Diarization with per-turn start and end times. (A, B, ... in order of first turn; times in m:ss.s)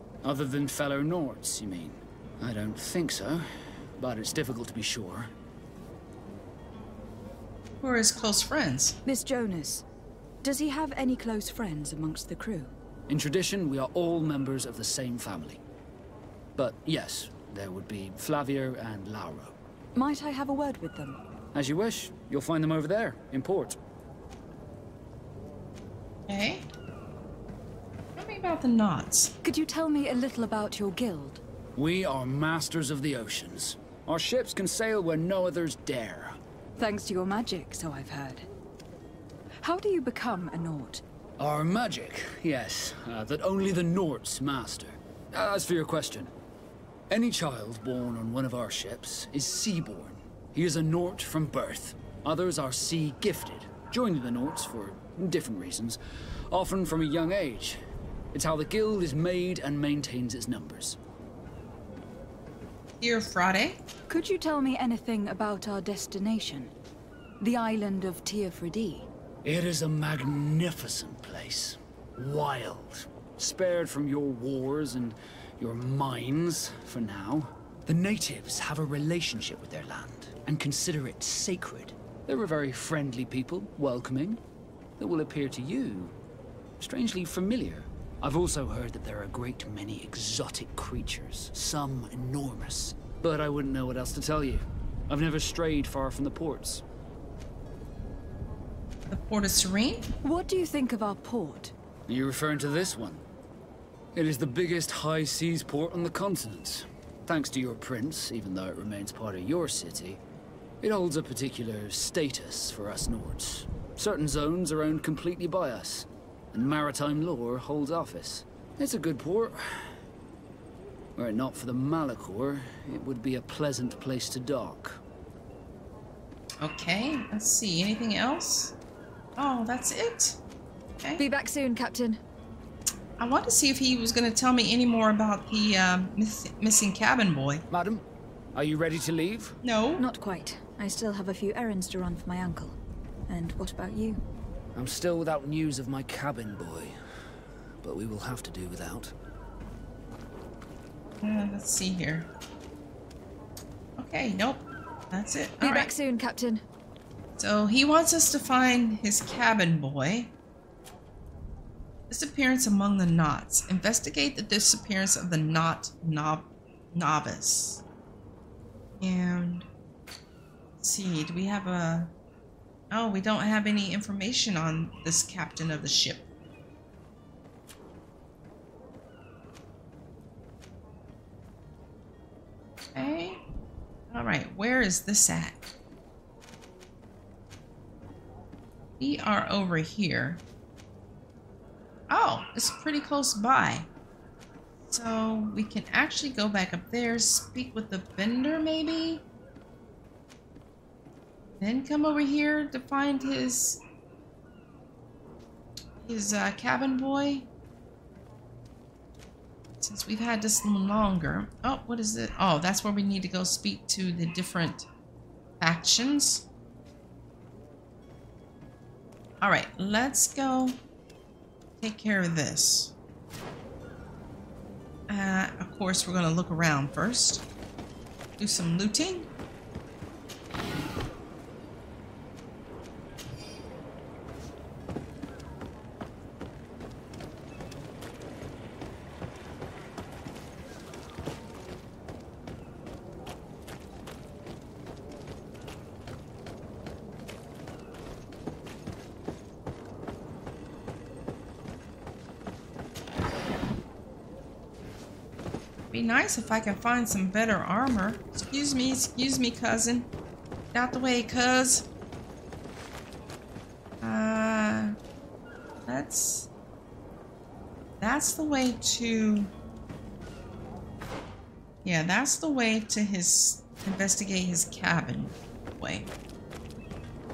0:00.2-0:03.5 A
0:04.0-0:05.3 A
0:07.8-0:09.0 B
0:09.1-0:09.8 C
0:10.4-0:12.7 C
0:13.1-0:15.6 A
0:16.6-0:19.6 A
0:20.0-0:21.2 C
0:21.5-0:23.8 A
0:26.3-0:26.6 B
0:28.2-0:29.3 B
0:29.4-0:31.4 C
0:31.8-0:36.4 A
0:36.8-0:38.5 C
0:39.6-0:41.0 C
0:41.4-0:46.3 A
0:47.1-0:56.0 A
0:56.5-0:57.8 A
0:58.3-1:01.0 A
1:03.0-1:03.8 B
1:04.1-1:06.7 C
1:07.4-1:09.1 C
1:09.4-1:24.4 A
1:25.0-1:26.2 A
1:26.8-1:36.8 A
1:39.1-1:40.1 B
1:40.2-1:41.7 C
1:42.1-1:43.2 A
1:44.1-1:50.2 A
1:50.8-1:59.9 A
2:01.2-2:05.0 A
2:06.6-2:08.8 B
2:09.4-2:10.4 B
2:11.2-2:12.2 C
2:13.2-2:17.6 B
2:17.7-2:18.0 A
2:18.5-2:19.6 A
2:19.6-2:20.1 B
2:20.0-2:22.8 C
2:23.3-2:24.2 C
2:24.8-2:27.0 A
2:27.8-2:29.1 A
2:31.2-2:32.3 B
2:34.0-2:35.9 B
2:35.6-2:36.6 C
2:37.4-2:40.3 B
2:42.1-2:47.8 B
2:49.0-2:49.7 B
2:50.8-2:52.1 B
2:52.9-2:56.3 B
3:03.0-3:03.4 B
3:04.1-3:05.6 B
3:09.0-3:10.4 B
3:12.1-3:13.9 B
3:14.9-3:19.2 B
3:21.6-3:23.8 B
3:26.0-3:27.5 B
3:29.8-3:34.9 B
3:35.6-3:36.5 B
3:39.4-3:40.8 B
3:41.8-3:42.9 B
3:45.1-3:47.5 B
3:48.4-3:49.3 B
4:15.9-4:20.1 B
4:20.7-4:21.9 B
4:24.0-4:25.0 B
4:25.9-4:26.5 B
4:28.0-4:29.5 B
4:31.8-4:36.1 B